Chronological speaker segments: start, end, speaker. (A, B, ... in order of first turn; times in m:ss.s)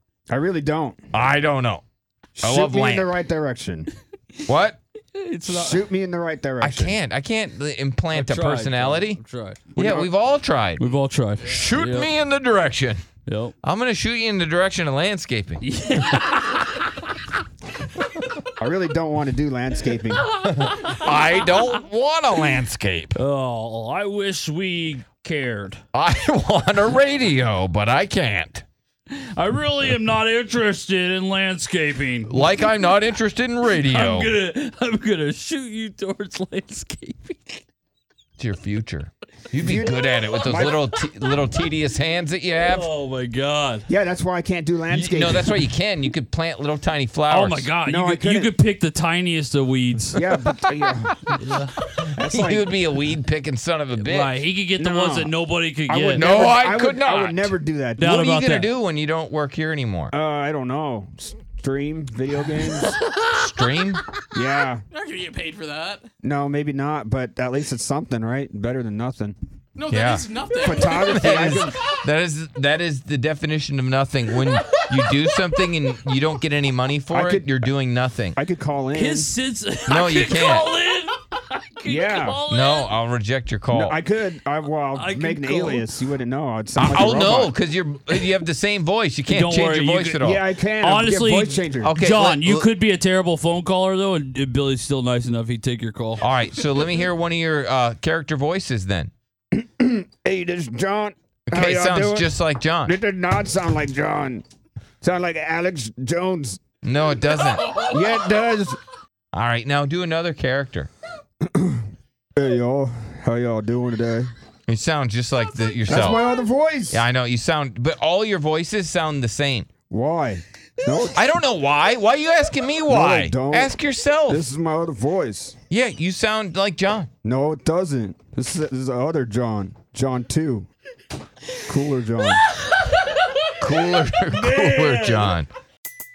0:00.3-0:01.0 A
0:01.1-0:01.8 B
0:02.4-0:03.9 A
0:02.4-0:03.1 B
0:04.5-0:04.8 B
0:05.1-0:05.8 C
0:05.5-0:07.0 A
0:06.6-0:09.2 B
0:08.1-0:10.1 C
0:09.8-0:10.8 B
0:10.8-0:12.1 C
0:11.5-0:13.0 B
0:13.2-0:13.5 C
0:13.6-0:15.6 B
0:15.6-0:16.8 C
0:18.6-0:20.2 A
0:20.3-0:21.7 C
0:20.6-0:23.2 B
0:23.1-0:25.8 C
0:25.9-0:28.6 B
0:29.1-0:32.6 C
0:32.3-0:34.3 B
0:33.7-0:37.6 C
0:38.4-0:42.9 B
0:39.6-0:40.9 A
0:42.6-0:43.8 C
0:43.9-0:45.6 A
0:44.9-0:47.7 B
0:47.3-0:50.2 C
0:47.8-0:48.5 A
0:50.2-0:51.3 A
0:51.4-0:51.8 C
0:52.0-0:54.4 B
0:52.1-0:52.7 A
0:53.9-0:56.3 C
0:54.8-0:55.3 A
0:55.9-0:58.1 A
0:56.2-1:00.1 B
0:58.0-0:58.7 C
1:00.1-1:02.9 A
1:03.3-1:04.0 B
1:04.3-1:04.8 A
1:05.0-1:06.1 D
1:06.2-1:09.4 A
1:09.8-1:10.7 D
1:09.9-1:18.4 B
1:10.6-1:11.8 A
1:17.1-1:17.7 A
1:18.3-1:19.3 A
1:18.9-1:22.9 C
1:19.9-1:20.7 B
1:21.9-1:22.4 A
1:22.5-1:24.0 B
1:23.7-1:27.5 A
1:24.9-1:25.9 C
1:26.8-1:30.4 B
1:29.3-1:30.2 C
1:30.2-1:31.9 A
1:30.8-1:36.3 C
1:31.8-1:32.7 B
1:36.2-1:39.1 B
1:39.5-1:44.4 A
1:41.5-1:42.9 B
1:45.0-1:46.6 A
1:46.8-1:47.9 B
1:47.8-1:48.8 A
1:49.3-1:50.9 B
1:51.4-1:51.8 A
1:52.4-1:54.3 A
1:54.7-1:56.2 B
1:55.9-1:57.0 A
1:56.9-1:59.7 B
1:59.9-2:01.2 A
2:01.1-2:04.4 B
2:02.9-2:03.8 A
2:04.3-2:05.6 A
2:05.7-2:07.1 B
2:07.2-2:10.7 A
2:11.6-2:12.4 A
2:13.6-2:15.5 B